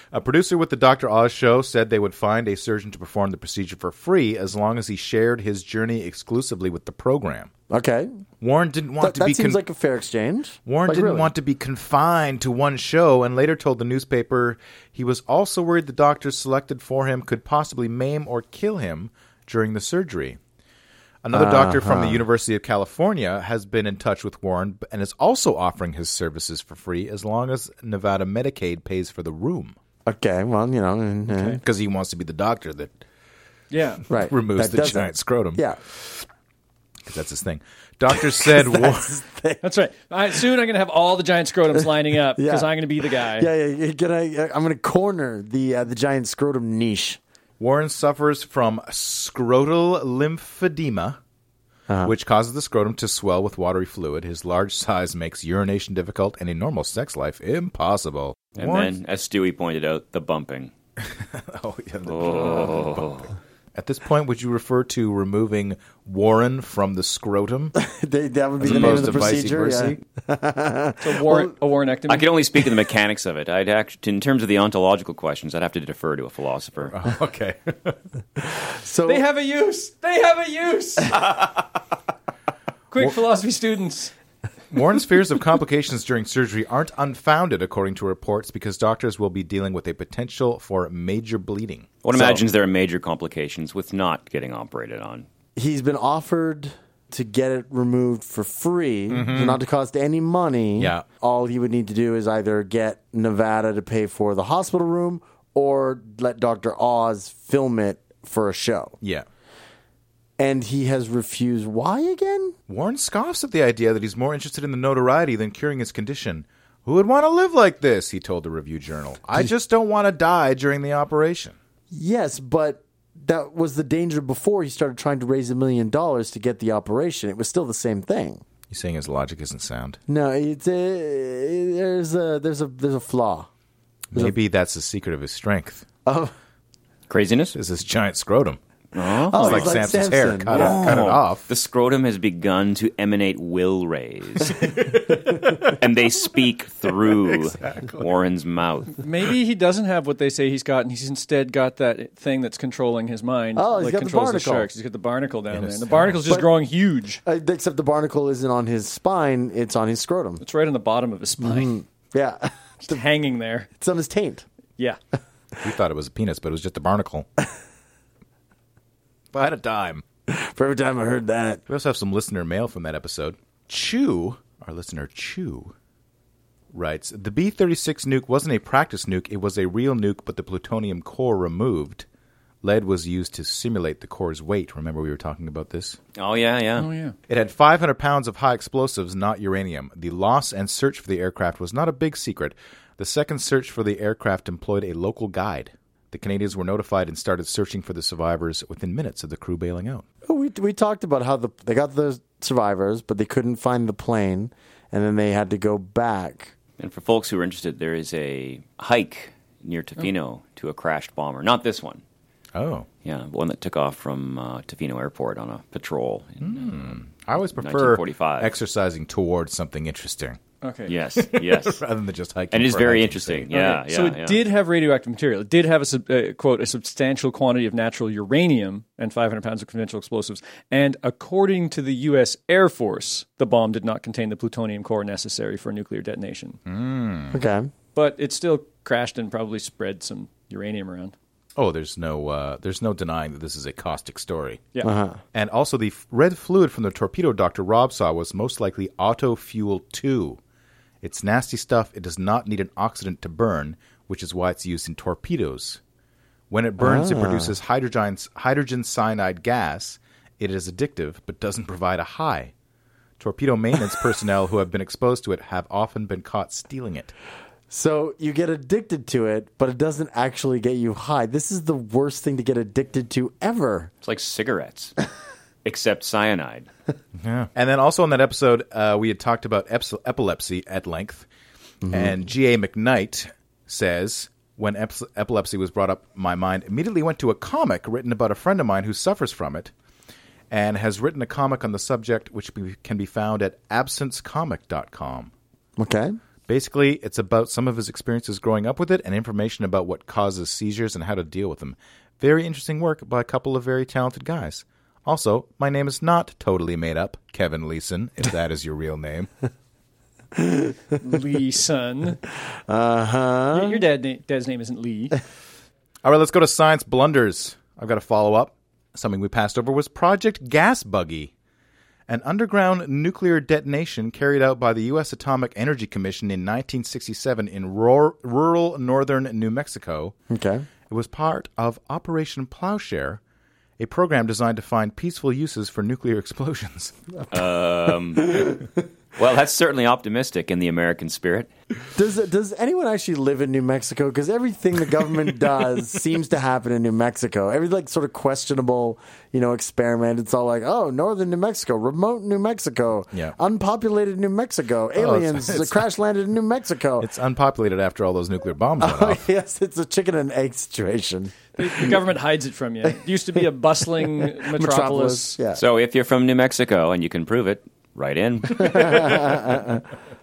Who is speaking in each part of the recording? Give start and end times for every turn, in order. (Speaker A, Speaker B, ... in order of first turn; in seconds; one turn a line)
Speaker A: 0.1-7.5
Speaker B: 7.7-8.2
Speaker A: 8.4-9.6
Speaker B: 9.0-11.3
Speaker A: 10.7-20.4
Speaker A: 21.2-29.8
Speaker B: 21.3-22.2
Speaker B: 30.1-31.6
Speaker C: 31.3-31.6
Speaker A: 31.6-33.0
Speaker C: 33.7-34.0
Speaker B: 34.1-35.8
Speaker A: 34.2-36.3
Speaker A: 37.1-39.2
Speaker B: 38.1-39.6
Speaker C: 39.6-43.5
Speaker B: 41.8-47.2
Speaker A: 47.6-51.2
Speaker B: 51.9-52.1
Speaker A: 52.0-59.0
Speaker D: 58.6-60.7
Speaker A: 61.0-67.8
Speaker D: 62.1-63.3
Speaker B: 67.8-71.5
Speaker A: 68.6-70.0
Speaker D: 68.7-69.1
Speaker C: 71.0-72.3
Speaker D: 72.1-77.0
Speaker A: 76.9-78.0
Speaker B: 78.7-79.3
Speaker C: 79.1-81.3
Speaker C: 82.9-84.1
Speaker A: 84.7-92.4
Speaker D: 92.0-95.3
Speaker B: 95.6-109.0
Speaker A: 99.1-99.6
Speaker A: 100.8-101.0
Speaker B: 110.4-112.5
Speaker A: 112.7-121.6
Speaker B: 121.9-128.4
Speaker A: 128.7-130.0
Speaker B: 130.1-133.5
Speaker A: 134.1-135.9
Speaker B: 136.1-136.3
Speaker D: 137.1-137.6
Speaker A: 137.5-138.6
Speaker D: 138.9-139.8
Speaker B: 139.3-140.9
Speaker A: 139.3-141.5
Speaker D: 140.5-144.7
Speaker A: 144.6-145.7
Speaker D: 145.6-149.0
Speaker A: 147.3-148.1
Speaker C: 149.0-157.2
Speaker B: 153.6-154.7
Speaker A: 155.5-156.3
Speaker B: 157.2-160.4
Speaker C: 160.4-161.7
Speaker B: 161.4-163.0
Speaker C: 162.8-163.7
Speaker B: 163.8-164.4
Speaker A: 165.6-167.3
Speaker A: 169.3-170.0
Speaker B: 170.3-171.6
Speaker A: 171.7-175.7
Speaker A: 176.7-182.1
Speaker A: 182.6-186.0
Speaker D: 186.2-186.9
Speaker C: 186.8-187.2
Speaker A: 187.3-200.1
Speaker B: 200.3-206.5
Speaker D: 206.8-212.0
Speaker A: 212.6-212.9
Speaker D: 213.0-217.0
Speaker A: 216.4-220.4
Speaker D: 217.6-218.5
Speaker C: 220.6-220.9
Speaker D: 220.9-221.8
Speaker A: 221.2-223.5
Speaker D: 222.5-224.4
Speaker C: 223.5-236.6
Speaker A: 236.7-237.4
Speaker B: 237.3-237.7
Speaker C: 237.9-241.2
Speaker A: 241.6-244.6
Speaker B: 244.8-245.2
Speaker A: 245.3-250.4
Speaker A: 251.0-255.8
Speaker A: 256.5-262.5
Speaker B: 256.8-257.5
Speaker A: 263.2-267.1
Speaker B: 267.7-273.9
Speaker D: 274.0-274.9
Speaker D: 275.6-276.7
Speaker A: 277.2-281.3
Speaker B: 281.8-282.1
Speaker A: 281.9-289.7
Speaker A: 290.5-295.3
Speaker B: 295.8-296.2
Speaker A: 296.5-309.3
Speaker B: 310.4-310.7
Speaker C: 311.0-312.2
Speaker B: 312.7-313.9
Speaker C: 313.5-315.2
Speaker A: 316.0-321.3
Speaker A: 322.1-330.1
Speaker B: 330.3-330.7
Speaker A: 330.9-333.2
Speaker A: 333.8-336.9
Speaker D: 337.3-338.6
Speaker D: 339.2-341.5
Speaker B: 341.9-357.1
Speaker A: 354.9-355.9
Speaker A: 357.0-359.2
Speaker B: 358.8-362.0
Speaker C: 361.6-365.4
Speaker B: 364.0-365.6
Speaker D: 365.5-369.4
Speaker B: 368.9-369.6